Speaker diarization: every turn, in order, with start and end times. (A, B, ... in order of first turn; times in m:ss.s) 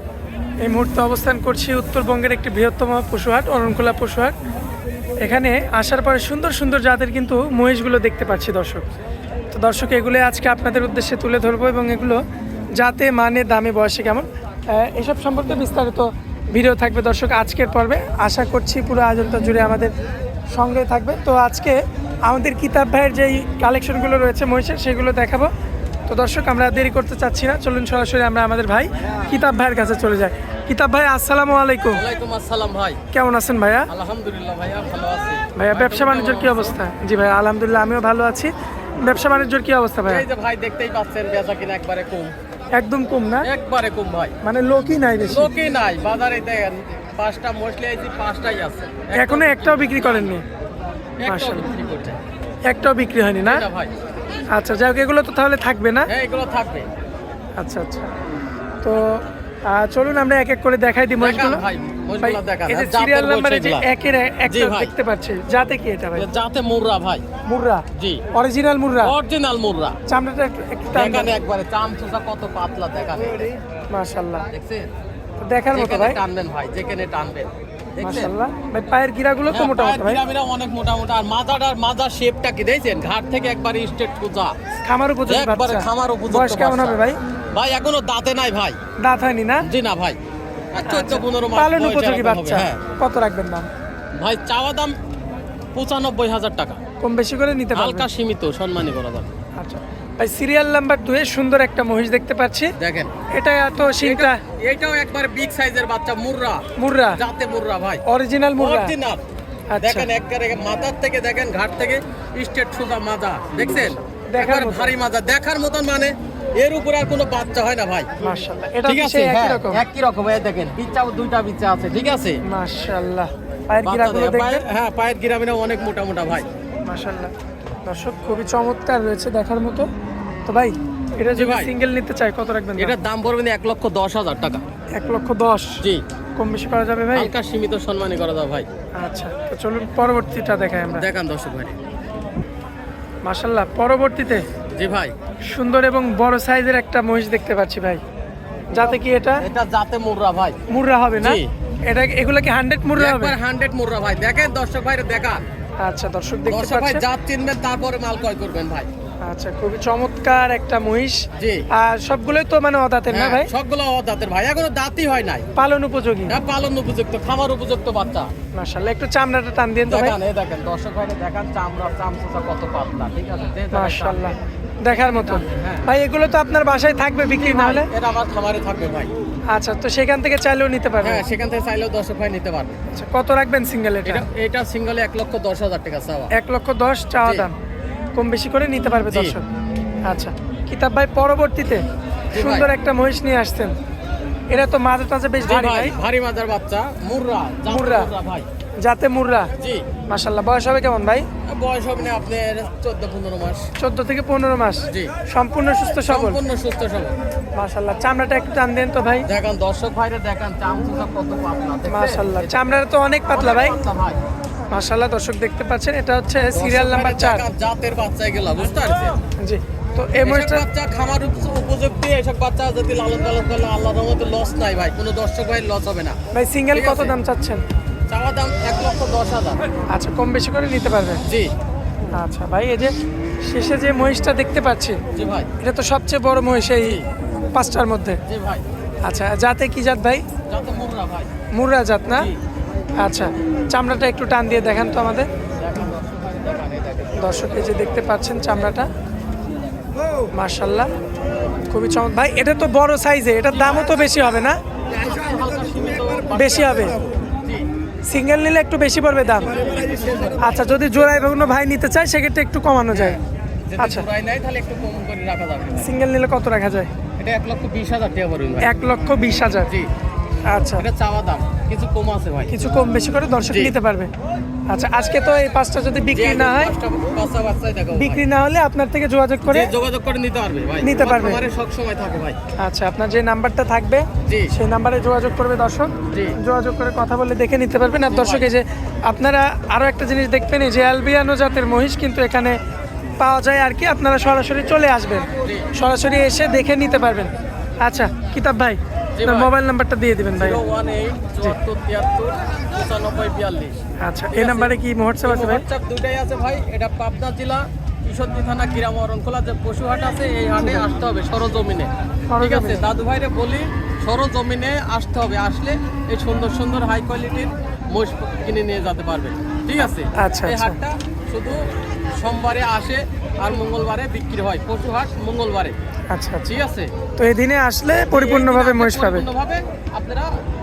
0:00.6-0:04.4 A
0:05.2-0:08.9 A
0:09.5-0:12.2 A
0:12.8-0:19.9 A
0:20.5-0:25.5 A
0:26.1-0:32.0 A
0:31.9-0:33.0 B
0:33.1-0:33.9 A
0:33.9-0:36.8 B
0:35.5-0:40.2 A
0:40.0-0:42.3 B
0:42.7-0:43.5 A
0:43.4-0:44.3 B
0:44.4-0:45.5 A
0:45.3-0:50.3 B
0:49.1-0:50.4 A
0:51.2-0:52.2 B
0:51.3-0:51.7 A
0:52.7-0:53.6 A
0:53.4-0:53.9 B
0:54.5-0:56.1 A
0:56.1-0:56.9 B
0:57.6-0:58.1 A
0:58.8-1:01.6 A
1:01.2-1:03.8 B
1:02.2-1:06.3 A
1:04.5-1:04.9 B
1:06.1-1:07.2 B
1:07.4-1:09.1 A
1:07.9-1:08.2 B
1:09.0-1:10.0 B
1:10.1-1:11.3 A
1:10.9-1:13.5 B
1:13.9-1:14.5 A
1:14.5-1:14.9 B
1:15.4-1:16.2 A
1:15.7-1:18.3 B
1:18.0-1:20.2 A
1:19.5-1:24.6 B
1:24.8-1:27.2 A
1:25.2-1:27.0 B
1:27.5-1:28.8 B
1:29.0-1:29.6 A
1:29.6-1:30.2 B
1:30.7-1:32.8 B
1:30.8-1:33.7 A
1:34.2-1:35.0 B
1:35.7-1:36.8 B
1:37.0-1:38.0 A
1:37.7-1:39.3 B
1:39.6-1:42.7 A
1:42.8-1:43.1 B
1:43.3-1:44.4 A
1:44.0-1:48.0 B
1:46.8-1:47.2 A
1:48.0-1:48.9 A
1:48.6-1:49.2 B
1:49.7-1:50.1 A
1:49.8-1:58.1 B
1:53.7-1:54.9 A
1:58.2-1:59.8 A
1:58.8-2:02.4 B
2:02.4-2:04.6 A
2:03.8-2:06.5 B
2:06.8-2:07.3 A
2:07.8-2:09.9 A
2:10.5-2:12.9 A
2:11.3-2:11.7 B
2:12.8-2:14.6 B
2:14.9-2:15.8 A
2:16.4-2:17.3 A
2:17.1-2:18.7 B
2:19.0-2:21.1 A
2:20.9-2:21.8 B
2:23.2-2:24.5 A
2:24.7-2:25.1 B
2:25.4-2:28.0 A
2:28.7-2:29.4 A
2:28.7-2:30.6 B
2:30.7-2:33.4 A
2:31.2-2:31.5 B
2:32.9-2:35.5 B
2:35.8-2:37.0 A
2:36.5-2:38.9 B
2:39.2-2:43.5 A
2:41.4-2:41.6 B
2:43.1-2:45.5 B
2:45.5-2:46.4 A
2:46.3-2:48.3 B
2:48.5-2:50.2 A
2:49.9-2:54.3 B
2:53.7-2:57.9 A
2:54.9-2:55.9 B
2:57.4-2:59.1 B
2:59.5-3:01.2 A
3:01.0-3:02.8 B
3:02.9-3:04.2 A
3:04.0-3:06.3 B
3:06.3-3:07.5 A
3:08.1-3:09.4 A
3:09.1-3:09.4 B
3:10.0-3:13.7 A
3:12.3-3:12.7 B
3:14.5-3:15.9 A
3:15.4-3:18.5 B
3:17.7-3:18.1 A
3:18.8-3:19.5 A
3:19.6-3:19.8 B
3:20.1-3:21.3 A
3:21.4-3:23.7 B
3:23.8-3:26.4 A
3:26.0-3:27.2 B
3:27.6-3:29.3 A
3:29.2-3:32.8 B
3:31.9-3:33.8 A
3:33.3-3:34.2 B
3:34.7-3:37.4 A
3:36.5-3:39.2 B
3:39.4-3:40.6 A
3:40.2-3:46.2 B
3:46.3-3:47.6 A
3:46.7-3:47.2 B
3:48.1-3:49.6 B
3:49.9-3:51.2 A
3:51.2-3:51.5 B
3:52.1-3:55.0 A
3:55.1-3:55.5 B
3:55.6-3:57.0 A
3:56.8-3:57.1 B
3:57.5-3:58.2 A
3:58.2-3:58.6 B
3:59.0-4:00.3 A
4:00.5-4:01.3 B
4:01.5-4:02.3 A
4:02.1-4:02.4 B
4:03.0-4:05.3 A
4:05.6-4:07.6 B
4:07.2-4:08.9 A
4:10.3-4:10.9 A
4:11.7-4:14.6 A
4:14.9-4:17.7 B
4:16.3-4:17.0 A
4:18.1-4:19.6 A
4:19.2-4:20.8 B
4:20.4-4:23.2 A
4:22.9-4:25.9 B
4:23.8-4:24.1 A
4:25.8-4:26.9 A
4:27.2-4:28.7 B
4:28.6-4:29.7 A
4:30.5-4:30.8 A
4:30.7-4:32.6 B
4:32.5-4:34.1 A
4:33.4-4:33.8 B
4:34.7-4:36.7 A
4:36.1-4:38.2 B
4:37.9-4:39.7 A
4:39.5-4:42.4 B
4:40.8-4:41.4 A
4:42.6-4:52.6 A
4:44.2-4:44.5 B
4:46.1-4:46.4 B
4:48.1-4:48.5 B
4:53.2-4:57.3 A
4:55.4-4:55.7 B
4:57.8-5:00.6 A
4:59.2-4:59.5 B
5:00.4-5:03.7 B
5:04.0-5:05.6 A
5:04.3-5:25.8 B
5:12.3-5:12.8 A
5:20.1-5:20.8 A
5:26.1-5:26.5 A
5:26.4-5:26.9 B
5:27.2-5:29.2 A
5:28.1-5:30.3 B